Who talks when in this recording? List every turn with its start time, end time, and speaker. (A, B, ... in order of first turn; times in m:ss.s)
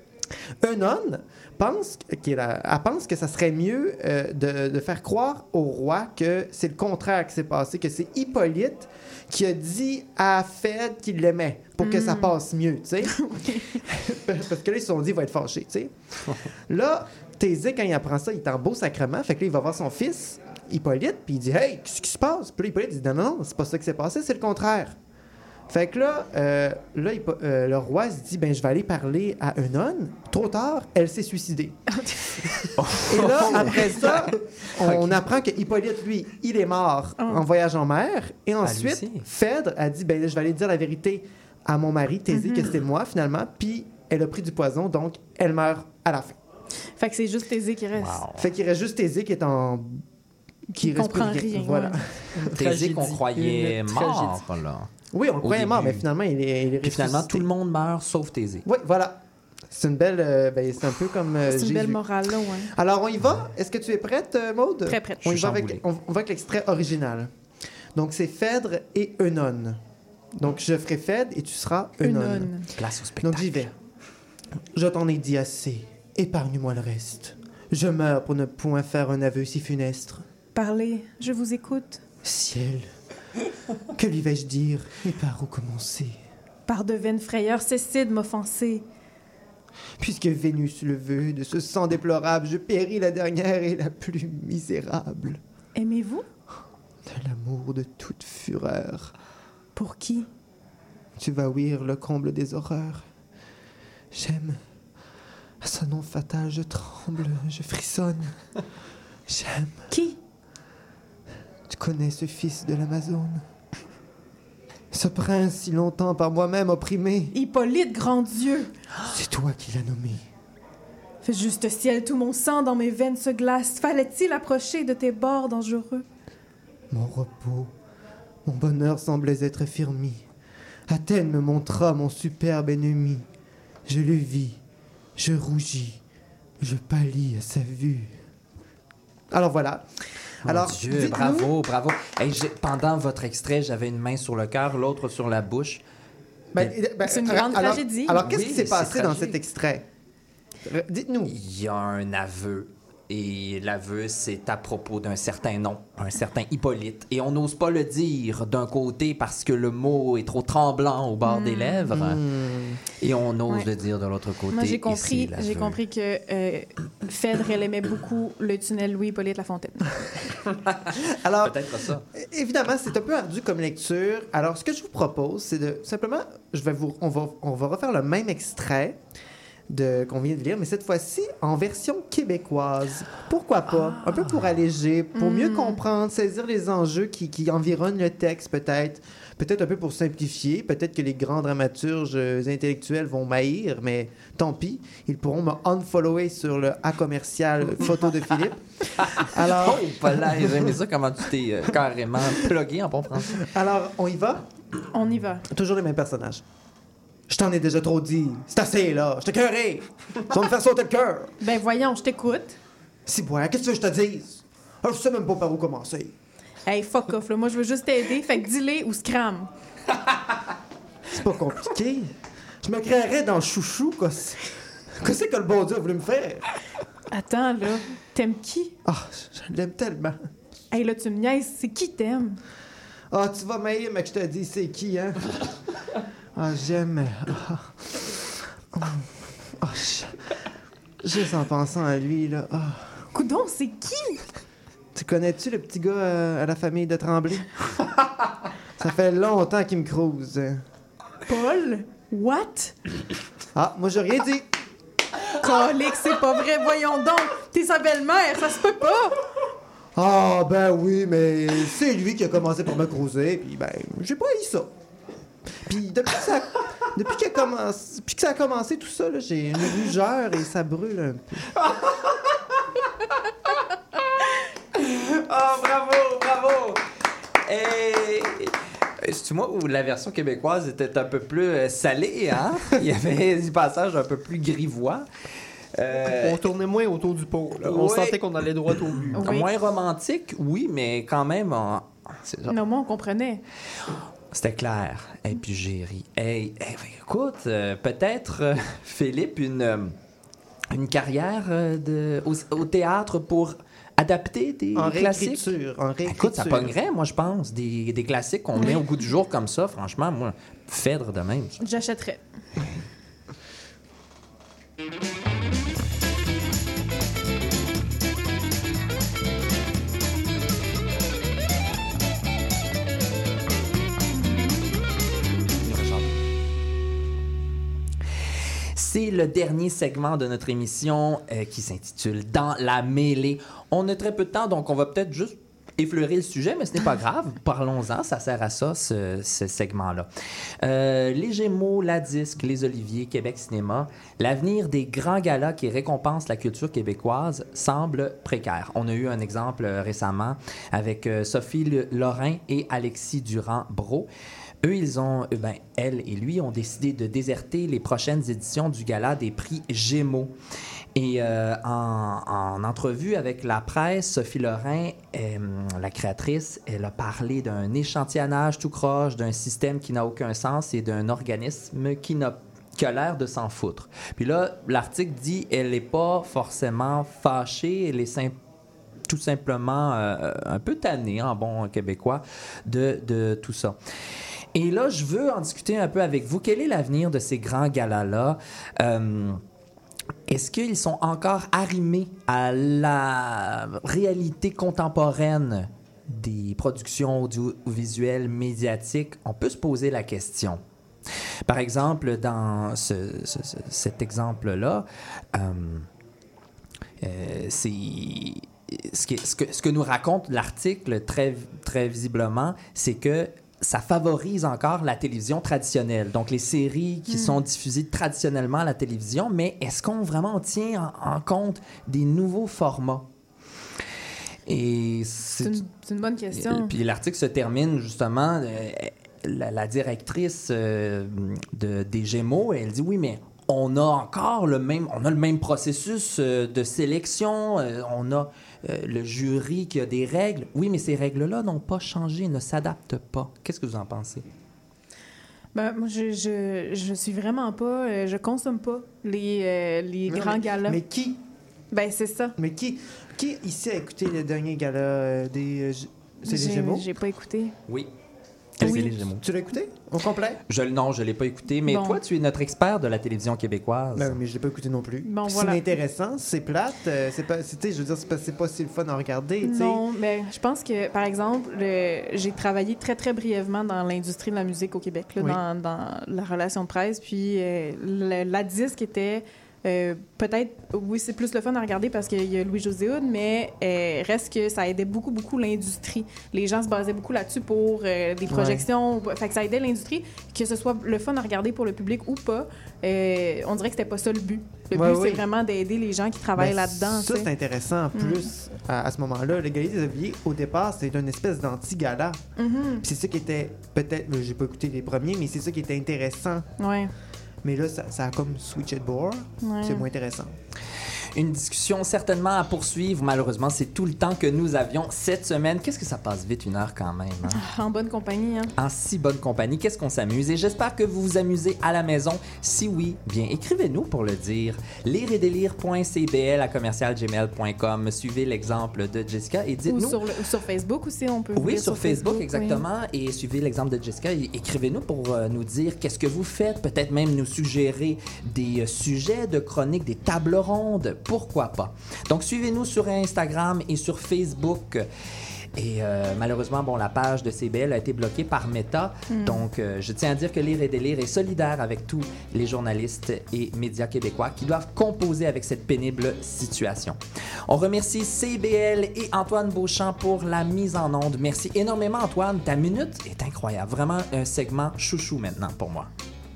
0:00.6-0:15.9 A
0:11.8-0:12.4 B
0:13.2-0:13.8 B
0:16.7-0:25.0 A
0:25.7-0:31.8 A
0:32.0-0:32.7 B
0:32.8-0:35.2 C
0:33.0-0:46.4 A
0:38.6-0:39.3 C
0:42.3-0:42.7 B
0:47.0-0:48.2 B
0:48.0-0:48.5 C
0:48.4-0:50.0 A
0:50.8-0:52.0 B
0:50.8-0:52.5 A
0:52.4-0:54.4 D
0:52.6-0:54.9 C
0:55.1-0:57.5 A
0:55.4-0:56.0 C
0:56.8-0:58.6 C
0:58.6-1:02.0 A
1:01.5-1:02.7 B
1:02.7-1:07.3 A
1:04.9-1:05.3 B
1:05.2-1:05.8 C
1:07.9-1:09.8 A
1:10.3-1:12.5 A
1:12.0-1:12.6 B
1:12.8-1:13.7 C
1:13.2-1:13.7 A
1:14.7-1:20.2 A
1:20.6-1:22.0 B
1:22.2-1:22.9 A
1:23.9-1:26.2 A
1:26.7-1:28.8 B
1:30.0-1:35.4 A
1:35.8-1:36.2 B
1:37.0-1:39.1 A
1:39.8-1:40.3 B
1:41.2-1:43.1 A
1:44.1-1:44.6 A
1:45.6-1:48.4 A
1:49.3-1:49.9 A
1:49.9-1:50.2 B
1:51.7-1:53.4 A
1:54.9-1:57.3 A
1:57.3-1:58.7 B
1:59.0-2:00.3 A
2:01.2-2:06.0 B
2:06.9-2:07.7 A
2:08.4-2:10.3 A
2:10.9-2:13.2 A
2:13.9-2:14.6 A
2:15.2-2:16.0 A
2:16.6-2:18.2 A
2:19.3-2:21.5 A
2:20.5-2:25.8 C
2:26.5-2:29.9 A
2:27.0-2:28.2 B
2:28.2-2:29.4 C
2:30.6-2:31.4 A
2:31.3-2:42.2 C
2:41.3-2:41.9 B
2:41.9-2:42.8 A
2:42.9-2:45.8 C
2:44.5-2:49.9 B
2:50.7-2:52.0 C
2:51.0-2:51.6 A
2:52.1-2:59.0 A
2:59.7-3:20.8 A
3:05.2-3:05.8 B
3:19.2-3:23.4 C
3:23.4-3:24.4 A
3:24.9-3:25.4 B
3:25.5-3:26.4 A
3:27.3-3:31.4 A
3:31.4-3:32.6 B
3:33.1-3:36.1 A
3:36.7-3:39.5 B
3:41.1-3:46.5 A
3:47.1-3:48.8 B
3:48.8-3:50.3 A
3:50.7-3:52.4 B
3:53.1-3:55.5 A
3:56.4-4:00.3 A
4:01.0-4:03.0 A
4:03.1-4:04.2 B
4:05.0-4:07.5 A
4:08.8-4:10.6 A
4:11.3-4:12.8 B
4:13.5-4:14.5 A
4:15.4-4:19.2 B
4:20.0-4:24.7 A
4:25.6-4:31.5 A
4:31.6-4:32.3 C
4:34.7-4:36.8 C
4:37.4-4:45.1 C
4:45.8-4:46.4 C
4:46.1-4:49.2 D
4:47.6-4:52.6 C
4:49.2-4:49.5 B
4:52.5-4:53.4 B
4:54.3-4:59.9 C
5:00.7-5:05.5 C
5:04.8-5:06.7 A
5:06.0-5:11.6 C
5:11.6-5:12.2 B
5:25.7-5:26.0 C
5:28.8-5:40.1 C
5:40.6-5:54.1 C
5:54.6-6:00.3 C
6:01.0-6:18.3 C
6:19.1-6:23.8 C
6:24.5-6:29.4 C
6:30.3-6:40.6 C
6:41.5-6:45.9 C
6:47.0-7:03.1 C
6:57.1-6:57.4 B
7:04.5-7:05.6 C
7:05.4-7:06.7 B
7:06.3-7:24.2 C
7:25.6-7:30.8 B
7:30.1-7:31.2 A
7:31.7-7:32.4 B
7:32.4-7:36.9 A
7:36.2-7:37.6 B
7:38.6-7:39.2 C
7:38.6-7:40.4 A
7:40.5-7:44.2 C
7:41.7-7:42.0 B
7:44.0-7:49.8 A
7:45.0-7:45.7 B
7:49.4-8:17.3 B
8:08.3-8:08.7 A
8:14.7-8:15.3 A
8:16.4-8:22.2 A
8:17.9-8:18.3 B
8:22.4-8:22.8 B
8:22.8-8:26.5 A
8:26.6-8:26.9 B
8:27.4-8:30.3 A
8:29.4-8:29.8 B
8:31.1-8:37.4 C
8:37.3-8:38.5 B
8:38.6-8:50.0 C
8:49.7-8:52.6 B
8:51.4-9:04.9 C
9:05.6-9:25.9 C
9:09.1-9:09.4 B